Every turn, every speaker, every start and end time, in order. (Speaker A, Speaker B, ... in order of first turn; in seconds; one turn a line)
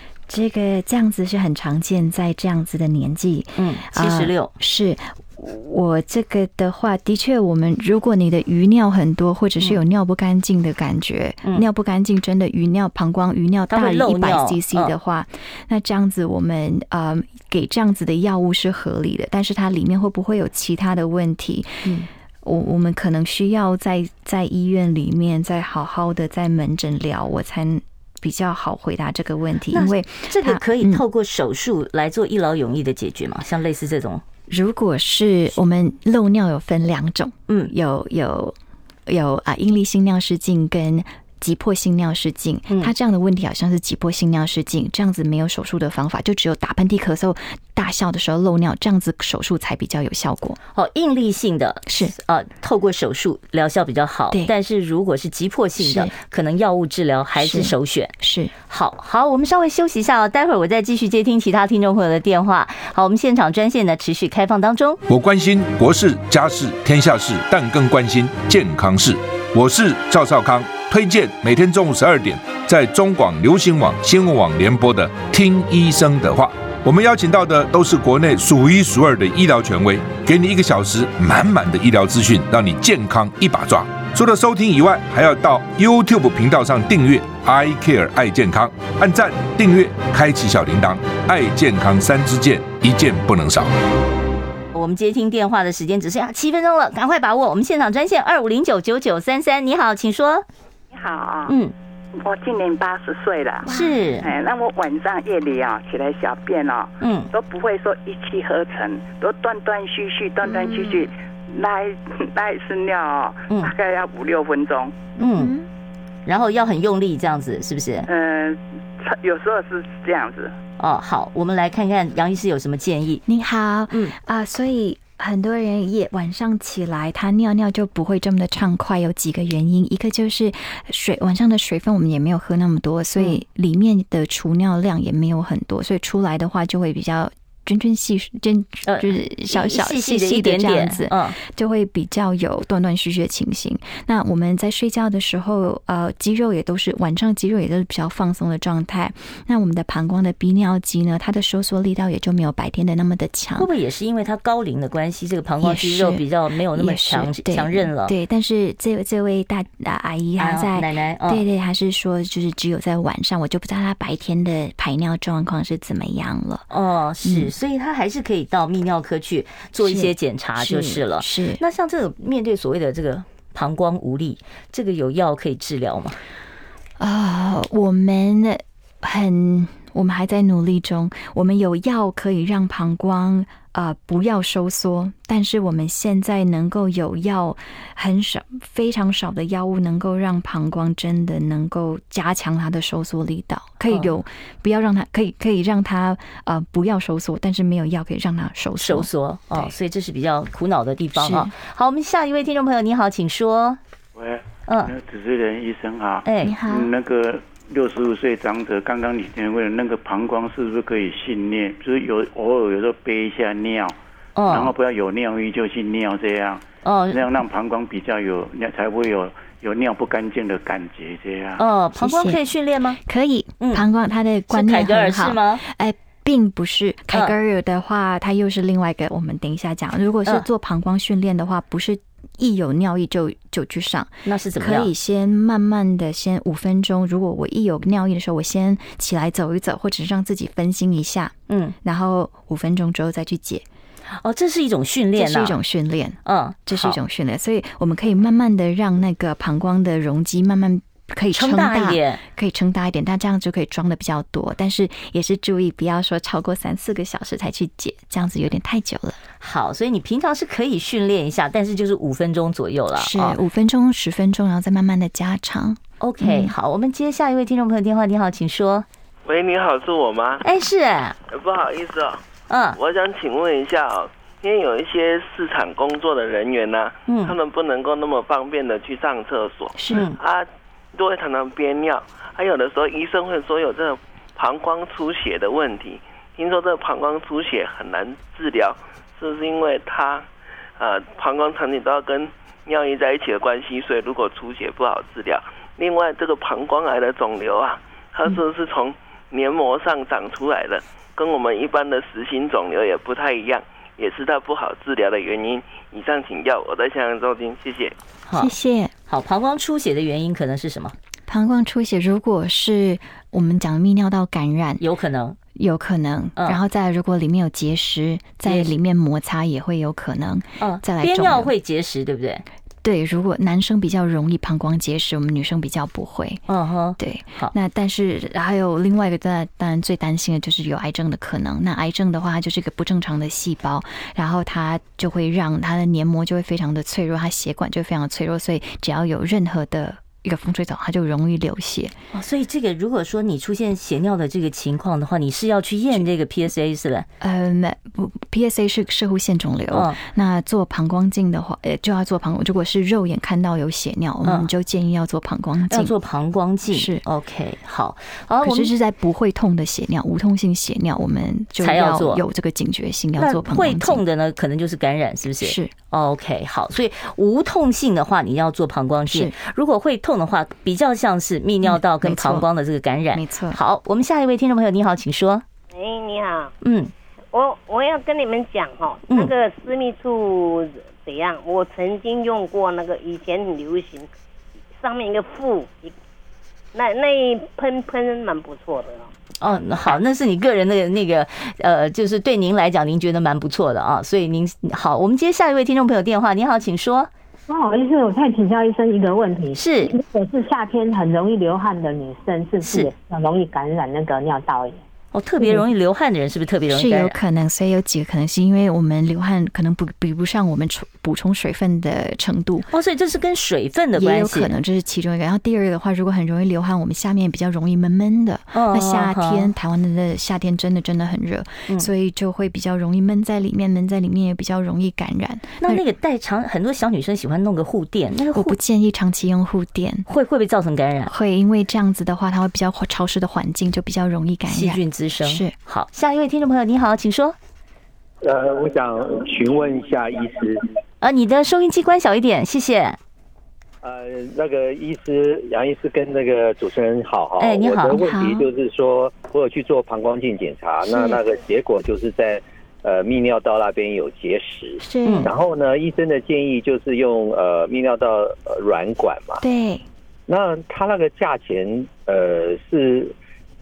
Speaker A: 0.3-21.9
Speaker B: 3.6-4.5
Speaker B: 13.7-14.9
Speaker A: 22.4-31.0
Speaker B: 29.7-34.2
Speaker A: 34.5-38.5
Speaker A: 39.1-50.6
Speaker B: 50.7-58.1
Speaker A: 51.9-52.1
Speaker A: 55.8-56.1
Speaker A: 57.4-58.5
Speaker B: 58.7-65.0
Speaker C: 65.1-93.7
Speaker B: 94.7-100.4
Speaker D: 100.9-101.6
Speaker B: 101.5-101.7
Speaker D: 102.2-115.6
Speaker B: 103.7-104.3
Speaker B: 107.0-107.3
Speaker B: 115.2-115.5
Speaker B: 116.2-118.1
Speaker D: 118.1-120.5
Speaker B: 120.8-123.2
Speaker A: 123.2-153.7
Speaker B: 138.8-141.3
Speaker B: 153.6-158.1
Speaker A: 155.6-166.7
Speaker B: 160.4-161.4
Speaker B: 166.7-176.2
Speaker A: 167.2-167.5
Speaker A: 169.8-171.6
Speaker A: 177.0-199.7
Speaker B: 198.8-203.8
Speaker A: 201.1-201.5
Speaker E: 204.1-213.9
Speaker B: 204.7-204.9
Speaker B: 206.2-206.6
Speaker A: 206.4-206.9
Speaker B: 214.3-214.7
Speaker E: 214.5-221.6
Speaker B: 216.8-217.3
Speaker B: 221.6-223.0
Speaker A: 222.0-222.4
Speaker A: 223.0-243.6
Speaker B: 224.5-225.6
Speaker B: 234.2-234.9
Speaker B: 241.5-241.7
Speaker B: 244.2-245.6
Speaker A: 245.1-259.2
Speaker B: 246.2-247.0
Speaker B: 251.3-252.2
Speaker B: 259.4-263.4
Speaker A: 262.9-266.5
Speaker B: 266.0-268.9
Speaker E: 269.3-270.3
Speaker F: 269.3-270.4
Speaker B: 270.4-271.2
Speaker E: 271.3-272.1
Speaker F: 271.5-271.9
Speaker B: 272.5-272.8
Speaker F: 272.8-280.4
Speaker E: 272.8-273.8
Speaker E: 274.4-276.7
Speaker B: 277.1-277.4
Speaker E: 277.3-279.6
Speaker A: 279.7-280.1
Speaker B: 279.9-280.2
Speaker F: 280.9-290.2
Speaker E: 281.0-281.7
Speaker E: 282.4-282.7
Speaker F: 290.8-307.9
Speaker E: 307.0-307.8
Speaker B: 308.3-308.5
Speaker A: 308.3-308.9
Speaker B: 309.1-310.9
Speaker A: 311.3-314.8
Speaker B: 314.8-315.4
Speaker A: 315.5-321.5
Speaker B: 318.4-318.7
Speaker B: 320.6-322.4
Speaker A: 322.8-326.4
Speaker B: 326.5-327.5
Speaker A: 327.0-341.9
Speaker B: 342.1-347.1
Speaker A: 347.2-355.9
Speaker B: 349.7-350.0
Speaker B: 354.2-354.5
Speaker B: 355.7-358.7
Speaker A: 356.7-357.0
Speaker A: 358.4-364.0
Speaker B: 361.6-362.2
Speaker B: 363.2-375.4
Speaker A: 365.4-365.7
Speaker A: 369.1-369.4
Speaker A: 371.6-372.5
Speaker A: 373.1-373.6
Speaker G: 375.7-376.5
Speaker B: 376.6-376.9
Speaker G: 377.3-384.1
Speaker G: 384.8-385.9
Speaker G: 386.7-389.1
Speaker B: 389.4-397.1
Speaker H: 397.5-404.8
Speaker B: 399.5-399.9
Speaker B: 402.6-402.9
Speaker B: 405.1-407.2
Speaker A: 406.7-412.7
Speaker B: 412.7-414.5
Speaker A: 413.9-425.8
Speaker B: 418.5-419.5
Speaker B: 425.6-428.6
Speaker A: 428.3-430.1
Speaker B: 430.1-431.1
Speaker A: 431.1-435.5
Speaker B: 434.5-437.4
Speaker I: 438.2-440.6
Speaker B: 441.0-443.0
Speaker I: 443.8-459.4
Speaker B: 447.4-448.0
Speaker A: 447.9-448.5
Speaker A: 450.9-451.2
Speaker A: 454.8-455.3
Speaker B: 455.0-455.3
Speaker A: 459.4-459.9
Speaker I: 460.3-463.1